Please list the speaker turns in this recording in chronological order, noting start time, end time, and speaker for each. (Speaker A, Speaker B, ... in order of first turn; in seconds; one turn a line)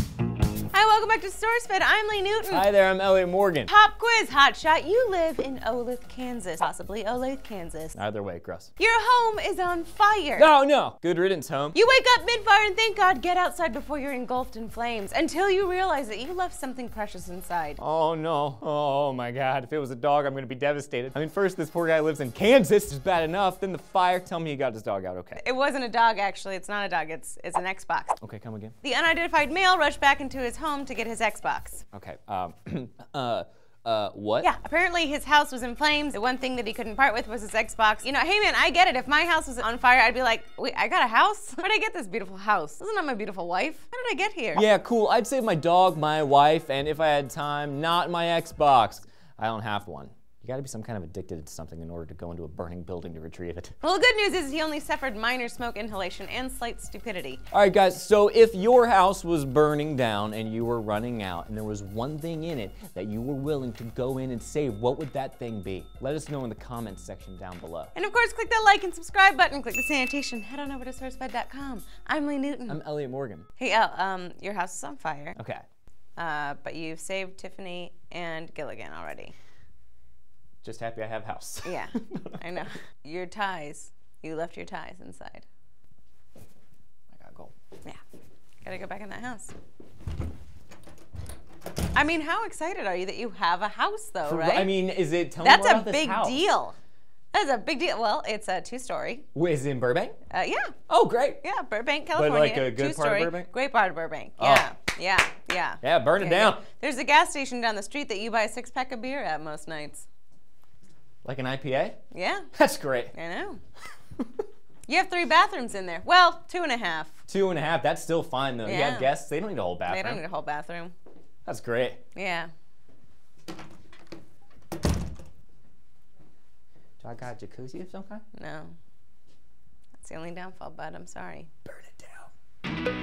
Speaker A: 0.7-2.7
Speaker B: 2.5-3.7
Speaker A: 3.7-8.0
Speaker B: 8.0-8.7
Speaker A: 8.8-10.5
Speaker B: 10.4-11.8
Speaker A: 11.7-17.8
Speaker B: 17.8-25.4
Speaker A: 25.4-28.2
Speaker B: 28.2-28.8
Speaker A: 28.8-31.9
Speaker B: 31.9-34.5
Speaker A: 34.4-44.6
Speaker B: 44.5-53.7
Speaker A: 53.8-57.4
Speaker B: 57.5-67.9
Speaker A: 68.0-72.8
Speaker B: 72.7-73.5
Speaker A: 73.6-75.4
Speaker B: 75.4-75.6
Speaker A: 76.2-79.3
Speaker B: 80.6-82.5
Speaker A: 81.7-85.5
Speaker B: 87.1-87.5
Speaker A: 88.6-89.5
Speaker A: 91.9-94.8
Speaker B: 94.2-96.4
Speaker A: 95.4-96.8
Speaker A: 97.3-99.2
Speaker B: 99.3-100.2
Speaker A: 100.3-100.8
Speaker B: 100.9-101.4
Speaker A: 101.4-110.1
Speaker B: 102.2-103.5
Speaker B: 104.4-104.7
Speaker B: 105.8-106.6
Speaker B: 111.2-112.0
Speaker A: 112.1-112.5
Speaker B: 112.5-113.1
Speaker A: 113.1-113.6
Speaker A: 114.9-117.2
Speaker B: 117.3-120.2
Speaker A: 118.6-119.1
Speaker A: 119.8-120.9
Speaker B: 121.5-122.0
Speaker A: 122.1-122.5
Speaker B: 127.0-128.2
Speaker A: 128.3-128.7
Speaker A: 130.0-131.5
Speaker B: 131.7-132.3